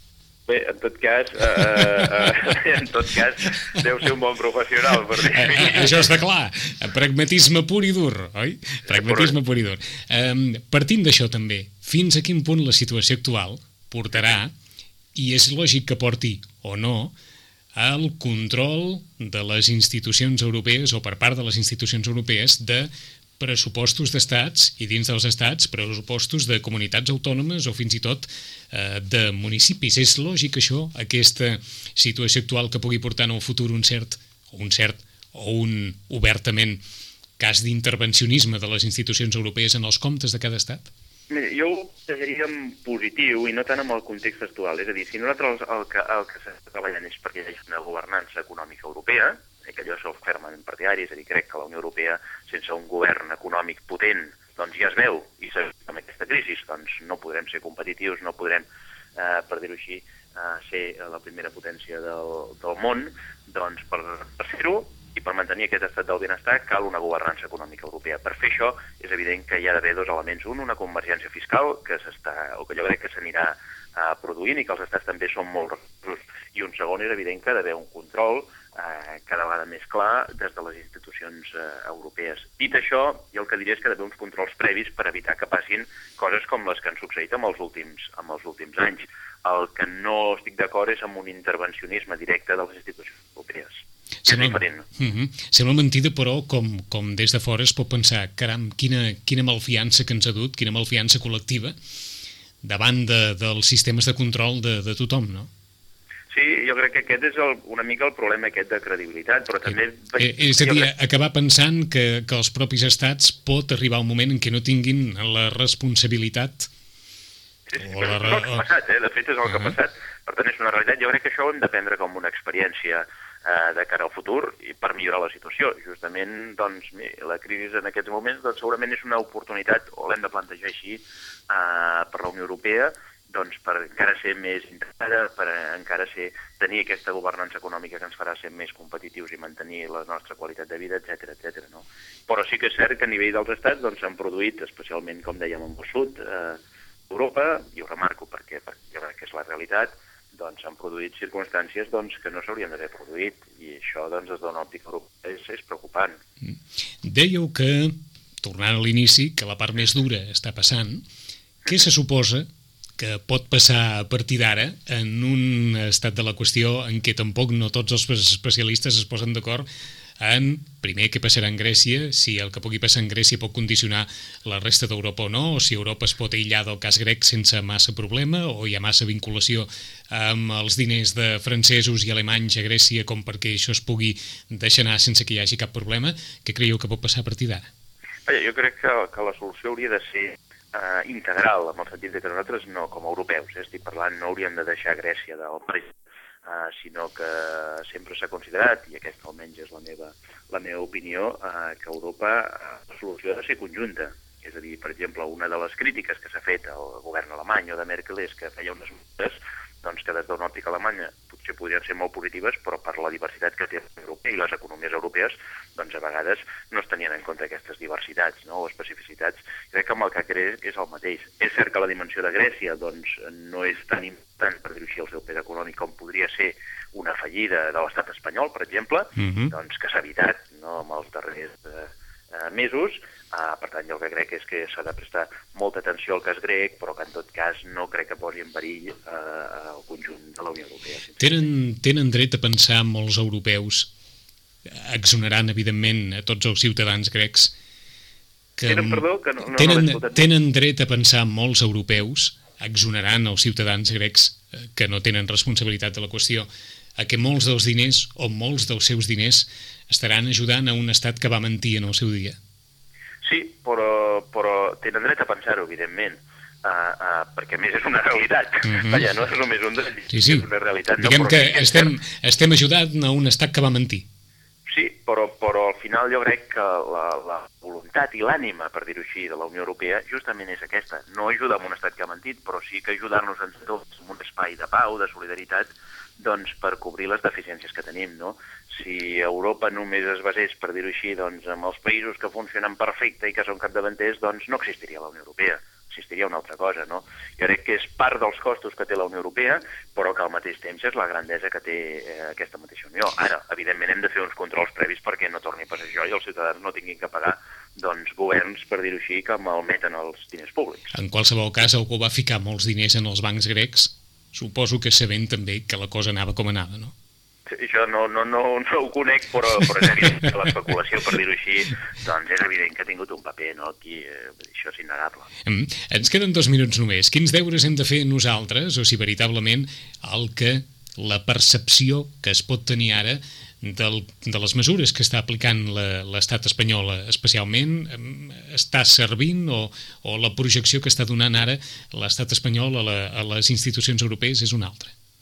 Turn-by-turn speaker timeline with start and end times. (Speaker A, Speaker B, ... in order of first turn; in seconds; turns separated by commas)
Speaker A: 0.5-6.1, Speaker B: 5.3-14.5, Speaker A: 8.9-9.3, Speaker B: 15.1-17.1, Speaker B: 17.7-36.8, Speaker B: 37.4-40.9, Speaker A: 41.3-94.8, Speaker B: 94.2-101.8, Speaker B: 102.6-105.5, Speaker A: 106.3-110.9, Speaker B: 110.2-116.7, Speaker A: 117.7-156.2, Speaker B: 117.8-118.6, Speaker B: 156.4-161.0, Speaker B: 161.7-162.5, Speaker B: 163.0-169.7, Speaker B: 170.2-187.7, Speaker A: 188.3-195.9, Speaker A: 196.4-241.4, Speaker B: 229.2-229.5, Speaker B: 241.2-243.9, Speaker B: 244.7-247.5, Speaker B: 248.6-256.5, Speaker A: 248.7-250.3, Speaker B: 257.0-262.4, Speaker A: 263.2-271.9, Speaker B: 268.6-269.0, Speaker B: 270.1-274.1, Speaker A: 274.7-310.9, Speaker B: 310.9-316.9, Speaker A: 317.5-325.3, Speaker B: 325.4-344.9